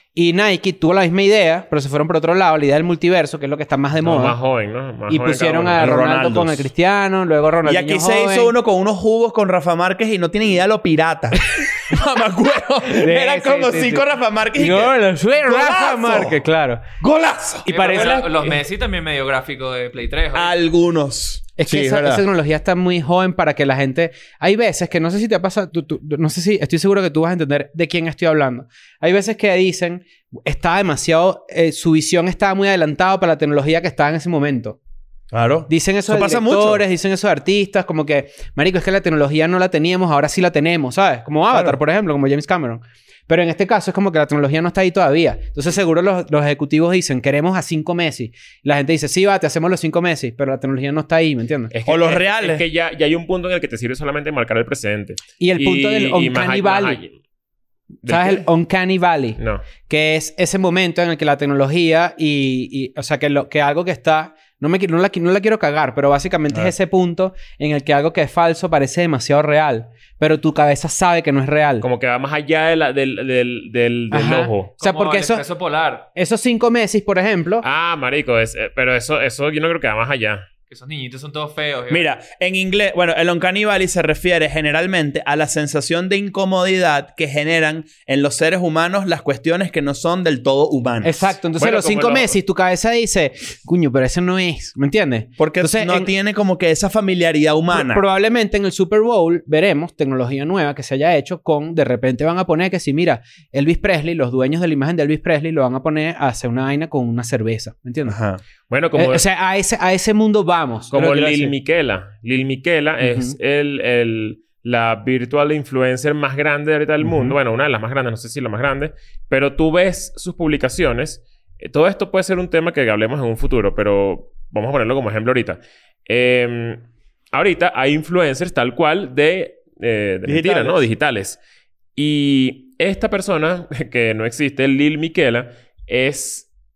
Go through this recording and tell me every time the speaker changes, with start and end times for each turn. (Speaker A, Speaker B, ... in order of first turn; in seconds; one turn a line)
Speaker A: 0.1-4.4
Speaker B: 4.0-5.9
Speaker A: 5.1-8.5
Speaker C: 5.8-6.7
Speaker C: 7.6-16.4
Speaker A: 12.9-16.8
Speaker C: 17.0-18.1
Speaker D: 17.7-20.5
Speaker B: 17.7-18.5
Speaker C: 20.3-22.2
Speaker A: 21.6-34.8
Speaker C: 35.3-36.8
Speaker A: 35.7-51.7
Speaker C: 41.5-41.8
Speaker B: 51.7-57.1
Speaker C: 51.9-52.6
Speaker A: 55.4-57.0
Speaker B: 58.0-58.5
Speaker A: 58.0-71.8
Speaker B: 59.4-59.6
Speaker B: 71.8-74.7
Speaker A: 74.1-75.4
Speaker D: 74.8-76.1
Speaker A: 76.1-77.6
Speaker B: 77.6-80.5
Speaker D: 80.7-82.1
Speaker C: 81.9-91.3
Speaker A: 91.0-96.1
Speaker B: 91.5-92.3
Speaker C: 95.4-98.0
Speaker A: 97.7-108.2
Speaker C: 108.0-108.4
Speaker B: 108.7-109.2
Speaker A: 108.9-111.5
Speaker B: 110.9-131.4
Speaker A: 113.0-113.3
Speaker C: 117.0-117.3
Speaker C: 130.2-130.9
Speaker B: 131.9-136.5